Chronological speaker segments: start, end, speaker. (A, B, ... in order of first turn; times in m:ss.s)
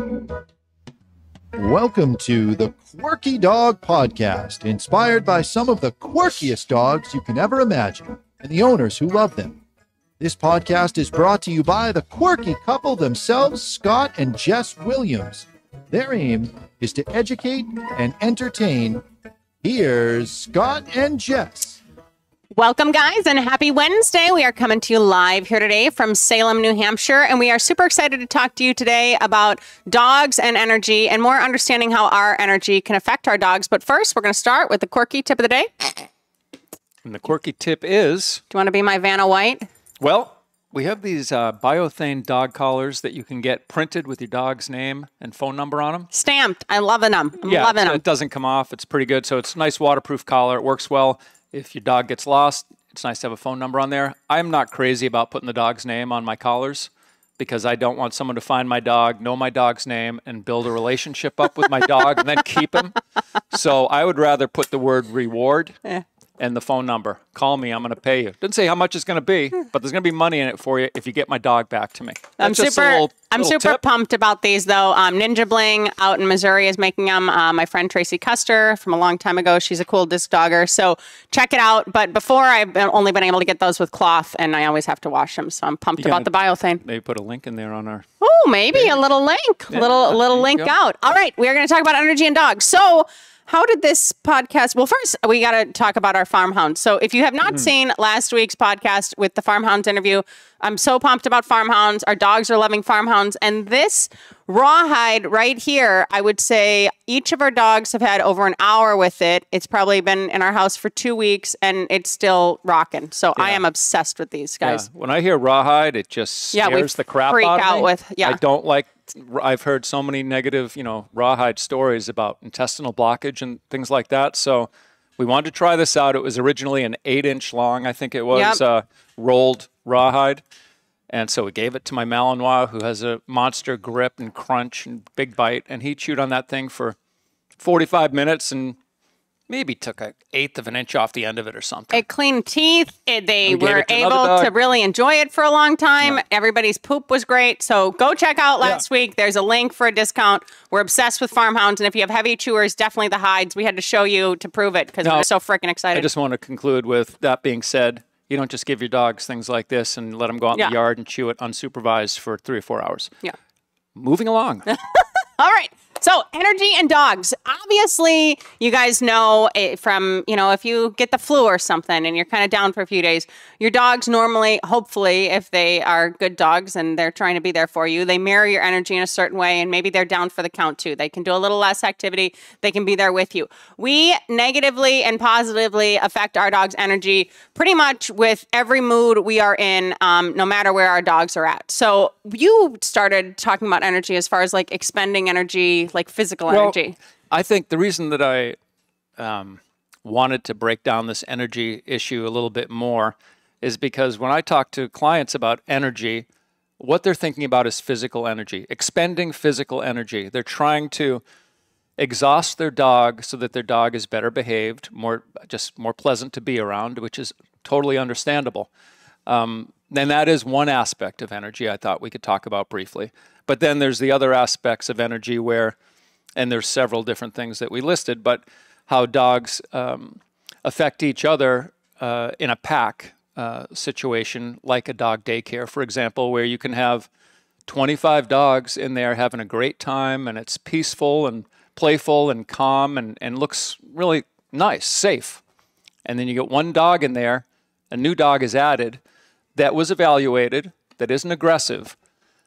0:01.6-0:09.6 A
0:10.2-0:19.0 A
0:19.6-0:21.8 A
0:22.6-0:36.1 B
0:37.0-0:38.4 C
0:38.5-0:39.7 B
0:40.0-0:46.1 C
0:46.1-0:48.0 B
0:47.4-1:03.0 C
1:03.5-1:05.8 C
1:06.4-1:13.8 C
1:12.4-1:26.8 B
1:26.0-1:26.3 C
1:26.8-1:28.1 C
1:28.2-1:54.8 B
1:29.7-1:30.7 C
1:53.4-1:53.6 C
1:54.6-2:10.4 C
1:56.5-1:58.4 B
2:08.3-2:08.6 B
2:11.1-2:17.0 C
2:17.6-2:18.8 C
2:19.5-2:22.0 C
2:21.9-2:36.1 B
2:23.5-2:24.5 C
2:35.9-2:43.1 C
2:44.0-2:44.7 C
2:44.7-3:17.0 B
3:16.5-3:16.8 C
3:17.3-3:18.6 C
3:19.2-3:26.3 C
3:26.8-3:31.2 C
3:32.0-3:38.7 C
3:39.3-3:45.8 C
3:46.4-3:57.1 C
3:57.7-4:05.4 C
4:06.0-4:09.0 C
4:09.6-4:12.0 C